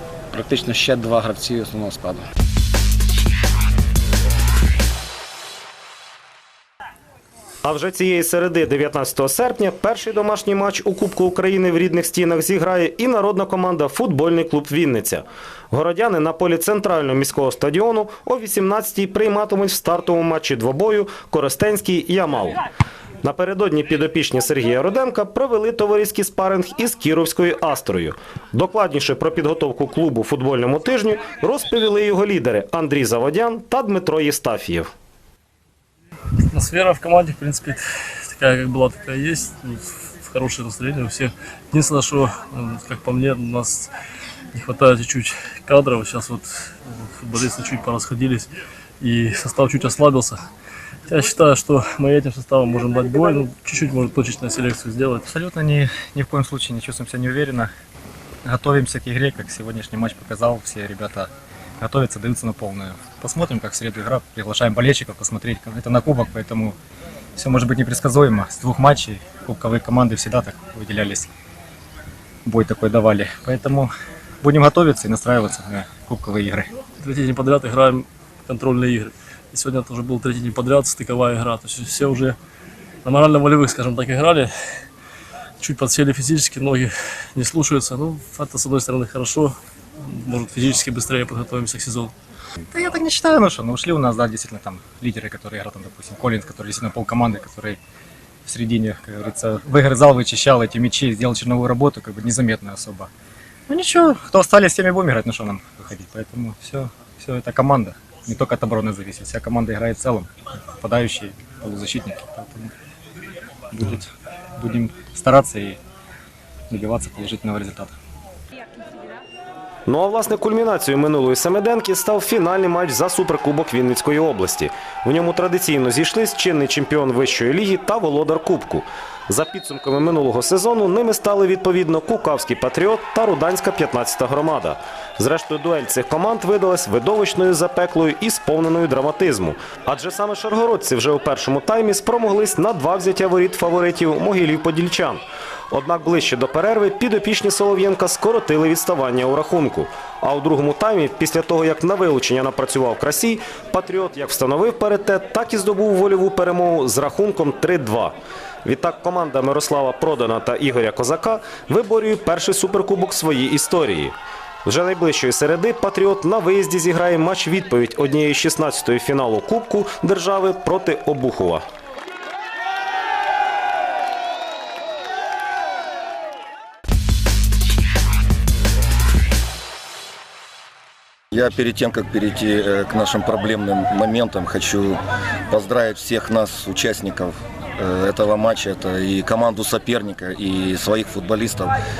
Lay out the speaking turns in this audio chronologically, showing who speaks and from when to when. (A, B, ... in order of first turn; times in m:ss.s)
0:00.3-0:02.3 A
0:07.6-0:22.6 B
0:23.2-0:34.9 B
0:36.5-0:43.9 C
0:44.5-0:48.5 C
0:49.0-0:50.4 C
0:51.1-0:55.2 C
0:55.2-0:57.7 D
0:58.4-1:06.8 D
1:07.4-1:11.3 D
1:12.4-1:13.9 D
1:14.4-1:16.7 D
1:17.0-1:22.4 C
1:23.0-1:24.5 C
1:25.6-1:32.1 C
1:32.7-1:37.8 D
1:38.4-1:43.1 D
1:43.7-1:52.7 D
1:53.7-1:55.8 D
1:56.7-1:57.9 D
1:59.8-2:51.6 B
3:01.3-3:11.7 E